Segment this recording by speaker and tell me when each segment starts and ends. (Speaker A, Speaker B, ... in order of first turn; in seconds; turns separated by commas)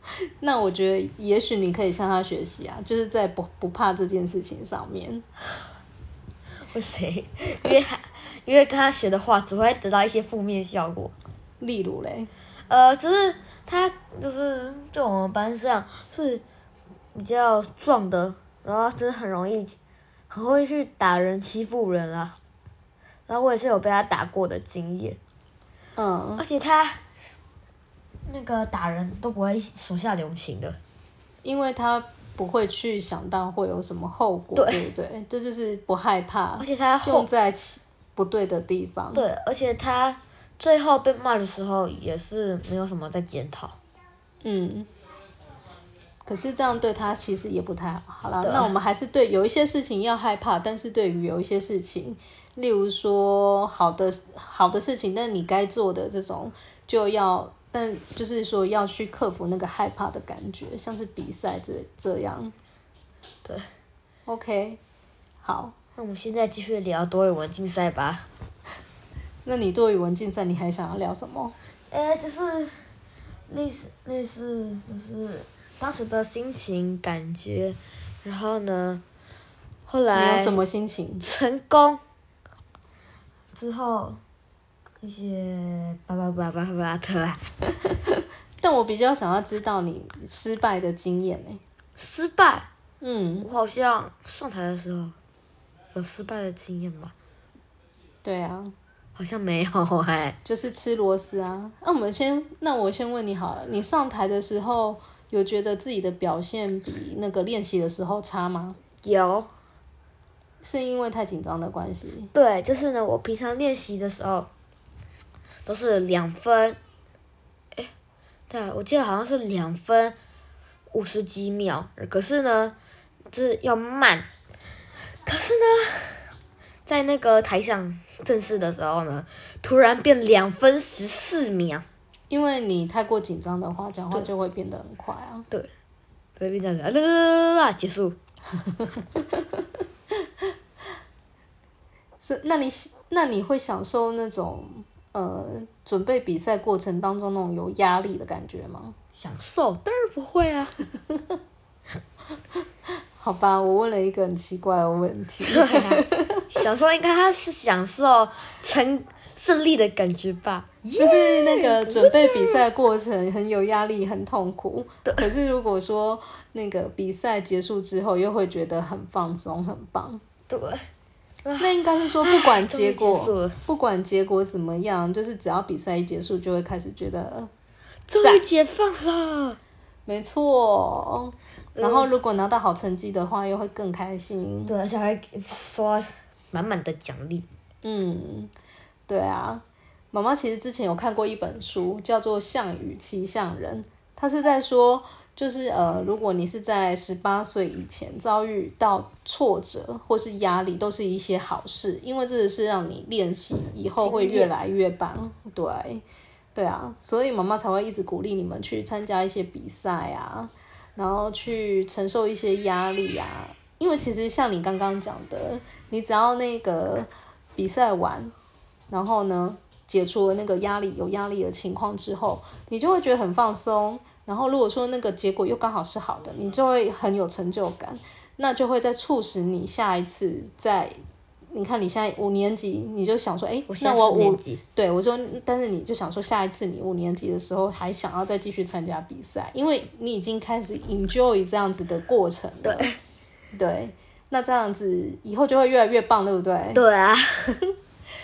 Speaker A: 0.4-5.2, Speaker B: 6.7-11.1, Speaker A: 11.6-12.3, Speaker B: 12.7-16.4, Speaker B: 17.1-19.8, Speaker B: 20.3-22.4, Speaker B: 23.3-25.2, Speaker A: 25.9-26.4, Speaker B: 26.4-27.0, Speaker B: 28.3-30.8, Speaker A: 31.4-39.2, Speaker B: 34.5-34.8, Speaker B: 36.6-37.3, Speaker B: 39.1-43.8, Speaker A: 44.4-44.9, Speaker A: 46.2-62.5, Speaker B: 48.4-48.7, Speaker A: 64.3-64.8, Speaker A: 65.4-65.7, Speaker B: 66.0-68.3, Speaker A: 69.4-71.5, Speaker B: 71.9-72.8, Speaker B: 73.5-79.0, Speaker B: 79.9-80.6, Speaker A: 80.1-81.2, Speaker B: 81.2-82.0, Speaker B: 83.5-84.2, Speaker B: 85.0-87.4, Speaker A: 88.6-91.6, Speaker B: 92.0-92.7, Speaker A: 93.0-93.5, Speaker B: 93.4-95.2, Speaker B: 95.9-97.1, Speaker A: 98.2-98.7, Speaker B: 99.2-100.4, Speaker A: 100.4-108.8, Speaker B: 109.0-109.5, Speaker A: 110.6-112.3, Speaker B: 112.3-114.5, Speaker B: 115.7-116.8, Speaker B: 118.5-120.2, Speaker B: 120.9-122.8, Speaker B: 123.3-124.3, Speaker B: 125.2-126.3, Speaker B: 126.8-131.8, Speaker A: 132.3-135.5, Speaker B: 136.4-138.2, Speaker A: 142.2-148.9, Speaker B: 149.2-150.7, Speaker A: 153.2-156.4, Speaker B: 155.4-162.6, Speaker A: 161.0-170.2, Speaker B: 170.5-170.8, Speaker B: 171.4-173.6, Speaker A: 171.6-177.5, Speaker B: 178.1-179.6, Speaker A: 178.2-178.4, Speaker A: 180.1-184.7, Speaker B: 181.8-182.1, Speaker B: 184.7-187.4, Speaker A: 187.8-188.5, Speaker A: 189.1-206.0, Speaker B: 204.0-204.5, Speaker A: 206.5-218.3, Speaker A: 218.9-231.0, Speaker A: 231.5-242.9, Speaker B: 233.7-234.6, Speaker B: 242.6-242.9, Speaker A: 243.5-246.8, Speaker B: 246.7-247.6